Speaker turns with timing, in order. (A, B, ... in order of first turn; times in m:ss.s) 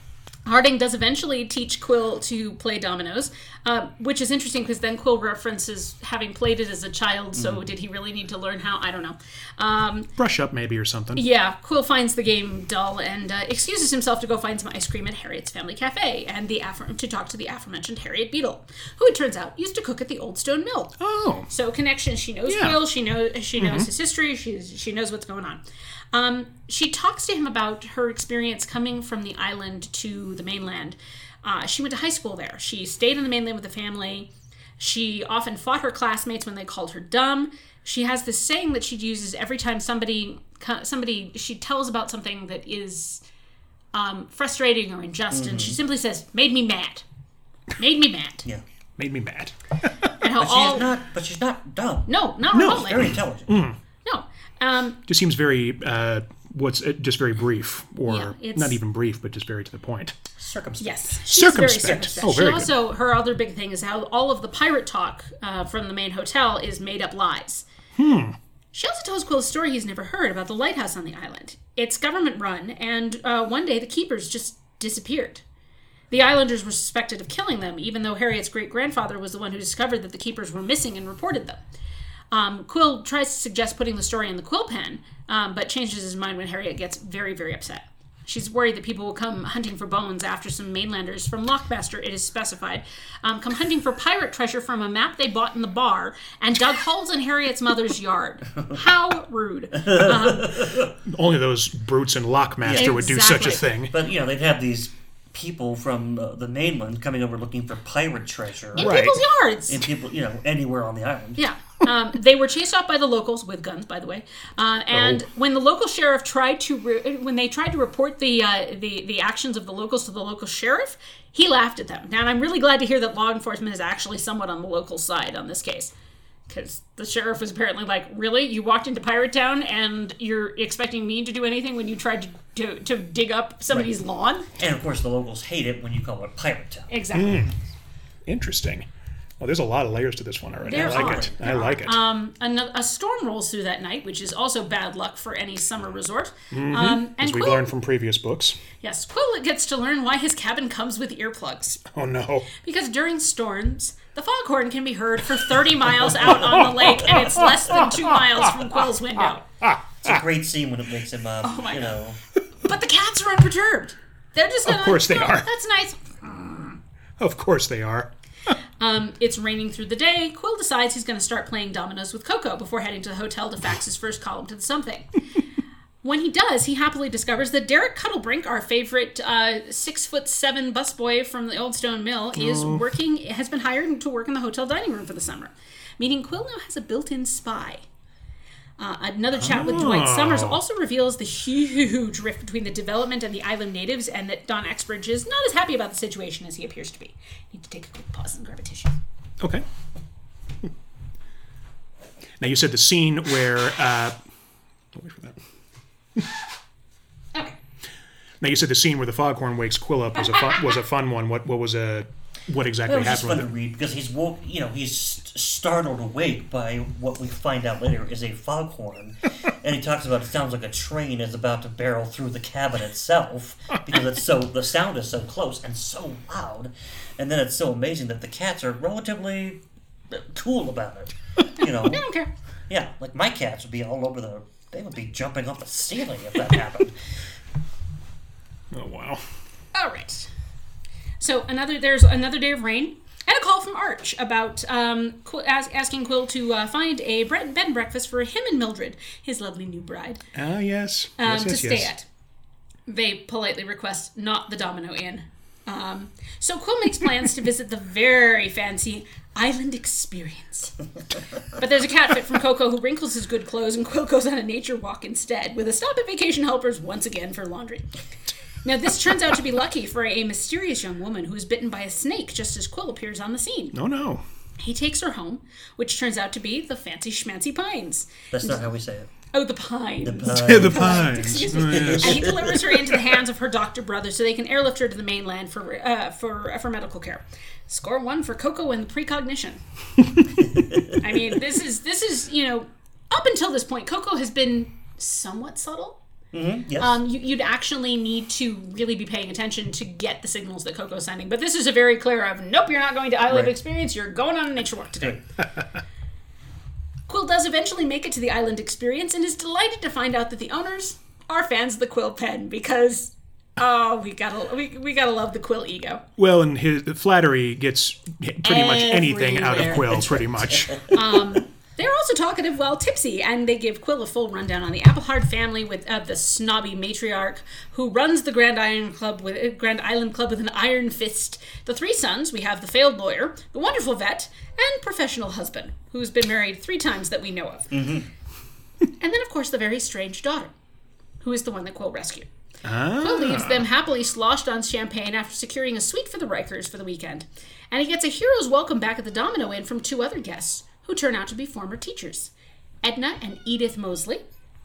0:00.5-0:10.1 A
0:07.4-0:07.6 B
0:10.2-0:11.2 C
0:11.2-0:21.0 A
0:21.0-0:21.5 C
0:21.5-0:43.2 A
0:22.5-0:22.8 C
0:23.6-0:23.9 C
0:43.9-0:47.0 A
0:45.3-0:45.8 B
0:47.8-0:48.5 A
0:49.0-0:50.1 C
0:50.2-0:50.9 A
0:50.4-0:53.5 B
0:52.1-0:53.1 A
0:52.5-0:53.8 C
0:54.0-0:55.0 A
0:55.1-1:00.2 C
0:58.1-0:58.8 A
1:00.4-1:01.0 B
1:00.8-1:07.7 A
1:01.3-1:02.7 C
1:08.0-1:08.4 C
1:08.7-1:15.4 A
1:16.1-1:21.6 A
1:22.3-1:40.7 A
1:39.8-1:40.9 B
1:41.0-1:43.9 C
1:42.6-1:49.1 B
1:42.7-1:43.7 A
1:48.8-1:49.9 A
1:48.8-1:49.2 C
1:49.7-1:51.4 B
1:51.4-2:05.9 A
1:54.9-1:55.2 C
2:06.5-2:14.5 A
2:14.6-2:17.2 B
2:16.9-2:17.5 A
2:17.1-2:17.6 C
2:18.3-2:18.9 C
2:19.4-2:22.0 C
2:20.7-2:21.5 B
2:20.7-2:27.7 A
2:26.5-2:28.6 C
2:28.8-2:31.8 A
2:31.9-2:32.5 C
2:32.6-2:39.4 A
2:36.4-2:38.5 C
2:39.6-2:40.2 C
2:40.0-2:42.2 B
2:41.4-2:42.0 A
2:42.6-2:46.8 A
2:44.7-2:45.5 C
2:47.2-2:48.1 C
2:48.8-2:55.1 A
2:56.0-3:07.8 A
3:02.4-3:02.8 C
3:08.8-3:19.0 A
3:09.4-3:10.6 C
3:22.4-3:24.2 C
3:24.9-3:25.4 C
3:28.4-3:33.5 C
3:30.2-3:30.7 A
3:32.9-3:52.1 B
3:51.8-3:52.3 A
3:52.7-3:57.2 B
3:58.7-3:59.3 C
3:59.7-4:00.3 A
4:01.2-4:10.2 A
4:10.3-4:11.9 C
4:11.2-4:12.0 A
4:12.9-4:20.8 A
4:21.5-4:27.9 A
4:28.6-4:33.8 A
4:33.7-4:34.2 C
4:34.6-4:38.7 A
4:38.3-4:39.1 B
4:39.3-4:49.6 A
4:40.0-4:42.6 B
4:40.3-4:42.3 C
4:51.0-4:56.0 A
4:56.3-4:57.0 B
4:56.8-5:05.2 A
5:07.1-5:16.0 A
5:16.2-5:20.8 C
5:18.4-5:20.0 A
5:19.7-5:20.9 B
5:20.9-5:38.0 A
5:37.7-5:38.1 B
5:39.0-5:40.5 A
5:41.2-5:42.3 A
5:42.6-5:43.6 C
5:42.9-5:52.3 A
5:52.8-5:54.2 A